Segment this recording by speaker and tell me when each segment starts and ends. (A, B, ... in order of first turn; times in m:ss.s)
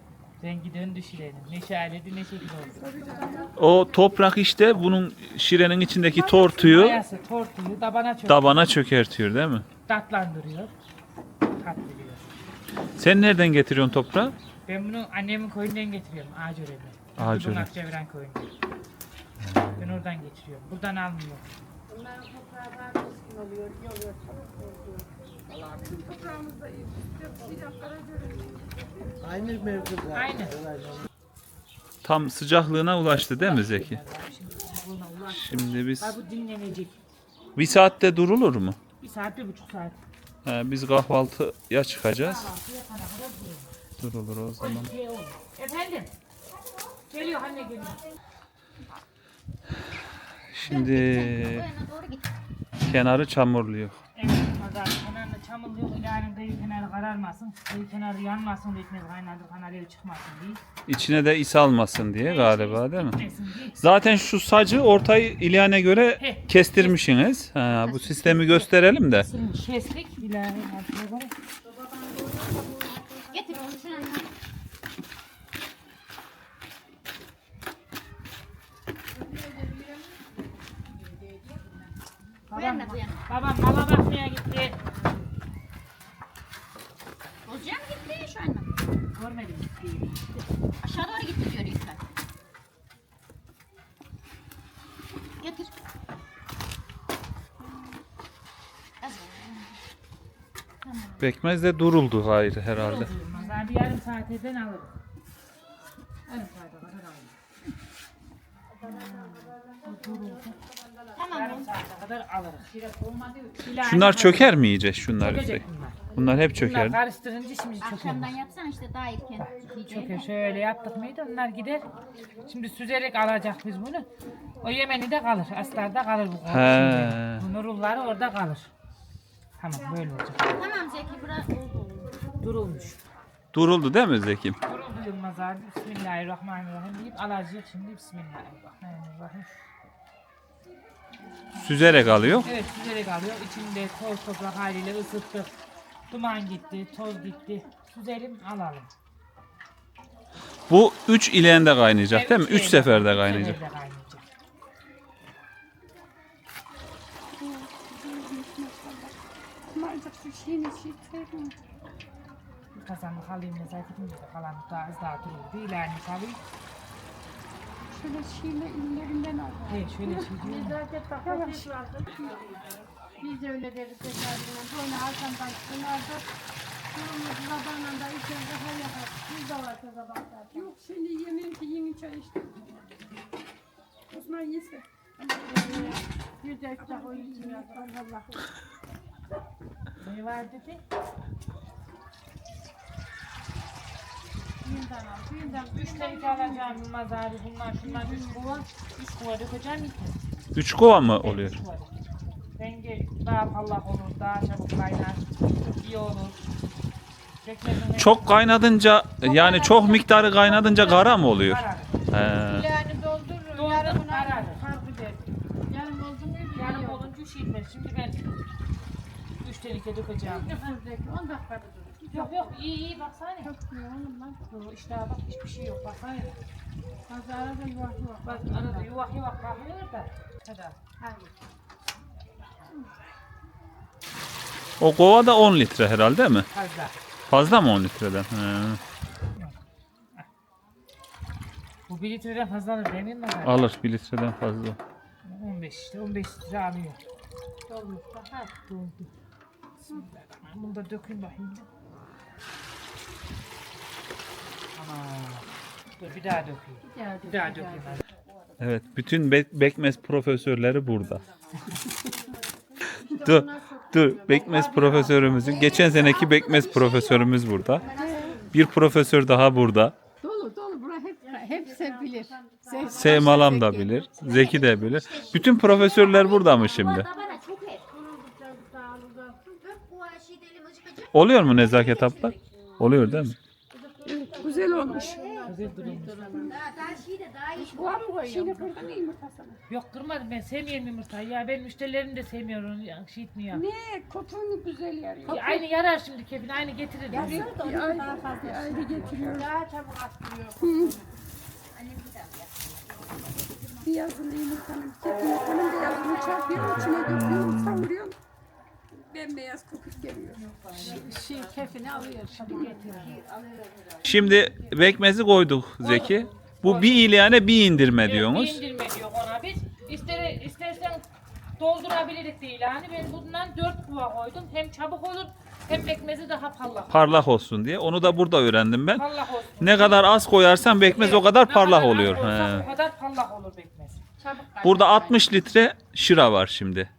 0:00.4-0:02.8 A
0:02.7-0:03.6 B
0:03.0-0:03.8 C
0:03.6-0:07.0 D
0:06.1-0:08.7 A
0:08.3-0:09.6 D
0:09.8-0:10.7 A
0:11.6-0:12.3 A
0:13.0-0:14.3 D
0:14.6-0:18.5 A
0:17.2-0:17.7 D
0:19.4-0:20.0 D
0:19.8-0:21.5 A
0:21.9-0:25.1 C
0:25.5-0:29.9 B
0:30.0-0:30.7 A
0:32.0-0:34.0 D
0:33.4-0:37.0 A
0:35.3-0:36.2 D
0:37.6-0:38.8 D
0:39.0-0:40.0 A
0:40.4-0:42.5 D
0:42.1-0:43.7 A
0:44.0-0:44.9 D
0:44.6-0:46.1 A
0:47.1-0:48.0 A
0:50.5-0:51.7 D
0:50.7-0:52.3 E
0:52.8-0:54.0 D
0:54.1-1:00.6 A
1:00.9-1:03.2 D
1:02.2-1:03.8 A
1:03.8-1:09.3 D
1:06.2-1:07.0 A
1:07.9-1:08.3 E
1:09.2-1:11.3 A
1:11.6-1:14.2 C
1:13.3-1:14.3 E
1:19.1-1:21.8 C
1:22.5-1:24.8 A
1:22.5-1:23.2 E
1:27.4-1:28.7 E
1:29.1-1:30.3 A
1:30.8-1:32.0 E
1:35.4-1:35.7 E
1:39.0-1:39.8 E
1:40.8-1:41.2 E
1:41.2-1:43.1 D
1:42.7-1:45.0 A
1:46.3-1:47.3 A
1:48.8-1:50.8 C
1:48.8-1:50.6 A
1:51.1-1:51.7 E
1:51.3-1:54.6 A
1:53.8-1:57.0 D
1:55.2-1:56.0 A
1:56.5-1:58.4 A
1:57.8-2:00.2 E
1:59.9-2:01.8 A
2:02.4-2:04.0 A
2:04.6-2:08.7 A
2:06.5-2:07.4 D
2:09.6-2:10.6 A
2:10.5-2:12.3 E
2:12.4-2:13.0 A
2:13.5-2:14.6 D
2:14.6-2:19.5 A
2:21.6-2:22.5 D
2:21.9-2:25.5 A
2:26.1-2:28.9 A
2:30.7-2:33.6 D
2:32.1-2:34.2 A
2:37.3-2:39.2 B
2:39.7-2:41.6 B
2:42.7-2:46.4 A
2:47.9-2:50.4 B
2:49.7-2:50.8 A
2:50.4-2:52.6 C
2:51.2-2:52.3 B
2:53.2-2:56.3 C
2:56.9-3:00.7 C
3:00.5-3:02.9 B
3:04.1-3:06.0 B
3:05.4-3:08.1 C
3:06.8-3:08.3 B
3:10.0-3:10.8 A
3:14.6-3:16.8 C
3:15.5-3:20.3 A
3:17.8-3:18.6 C
3:20.5-3:21.6 D
3:21.1-3:21.9 A
3:22.5-3:26.4 A
3:27.4-3:28.5 A
3:28.0-3:32.7 D
3:29.2-3:32.1 A
3:32.5-3:37.1 C
3:33.5-3:34.6 A
3:36.5-3:38.2 A
3:39.4-3:40.8 A
3:40.2-3:42.6 C
3:42.1-3:43.5 A
3:43.4-3:44.4 C
3:44.5-3:46.4 A
3:47.1-3:48.9 C
3:48.2-3:50.8 A
3:51.0-3:51.3 C
3:54.8-3:56.5 D
3:56.5-3:56.9 A
3:57.3-3:58.8 D
4:01.9-4:03.7 A
4:03.4-4:04.8 D
4:05.2-4:07.0 A
4:07.7-4:08.3 C
4:08.1-4:09.1 A
4:09.9-4:11.7 A
4:14.7-4:18.0 A
4:16.9-4:17.8 B
4:17.0-4:17.6 C
4:18.6-4:21.2 D
4:21.2-4:26.0 C
4:21.7-4:22.1 B
4:23.2-4:27.8 D
4:25.3-4:28.5 E
4:27.9-4:28.4 B
4:28.5-4:30.0 D
4:30.2-4:34.1 B
4:31.2-4:33.6 C
4:32.9-4:37.1 D
4:34.2-4:37.8 E
4:36.8-4:39.7 C
4:39.6-4:42.9 E
4:41.1-4:43.4 D
4:43.7-4:46.9 C
4:44.0-4:47.0 B
4:44.6-4:45.6 E
4:45.4-4:46.5 A
4:46.4-4:48.6 E
4:47.5-4:49.6 B
4:48.3-4:49.0 C
4:49.7-4:53.6 A
4:53.5-4:55.6 B
4:55.2-4:57.5 A
4:57.1-4:59.5 B
4:57.1-5:01.1 C
4:57.2-4:58.1 E
5:00.6-5:01.0 B
5:01.7-5:03.8 E
5:03.8-5:08.2 B
5:06.5-5:07.9 D
5:08.9-5:12.9 B
5:10.6-5:11.2 A
5:10.7-5:14.1 C
5:12.4-5:13.2 A
5:14.0-5:18.6 D
5:15.8-5:17.0 A
5:18.0-5:21.0 A
5:21.6-5:27.1 A
5:26.9-5:29.1 D
5:28.9-5:30.0 A
5:29.6-5:32.7 D
5:30.8-5:34.0 A
5:32.4-5:32.7 C
5:34.2-5:35.4 C
5:34.6-5:36.9 D